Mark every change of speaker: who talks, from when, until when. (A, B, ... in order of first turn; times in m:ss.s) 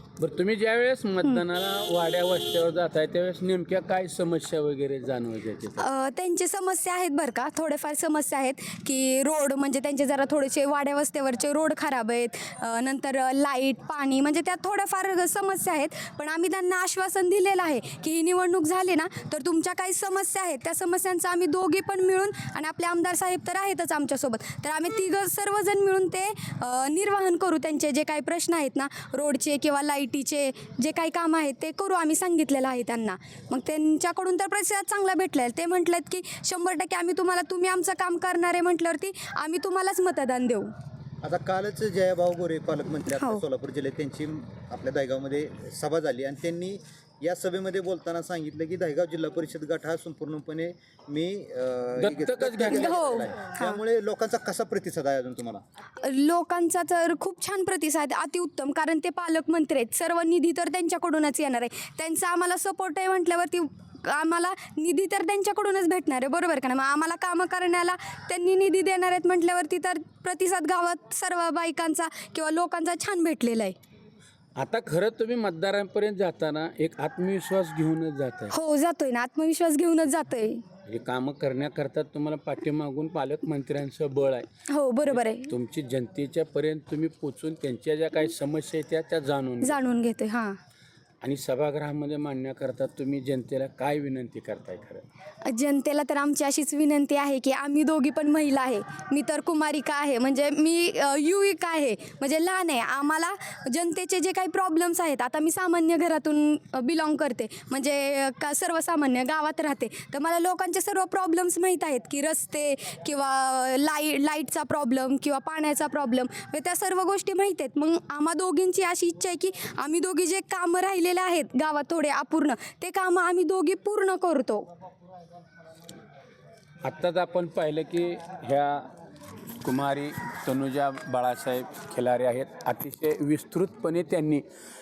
0:00.2-0:05.8 A
0:05.8-0:40.7 B
0:41.2-0:55.6 C
0:43.2-0:43.4 B
0:52.0-0:53.0 A
0:52.7-0:53.8 B
0:56.0-1:13.7 B
1:14.6-1:18.5 A
1:18.5-1:20.6 B
1:20.8-1:24.4 A
1:24.7-1:25.5 B
1:25.1-1:29.8 A
1:29.6-1:30.6 B
1:31.2-1:35.0 A
1:35.4-2:04.7 B
2:06.8-2:08.9 A
2:09.6-2:14.4 A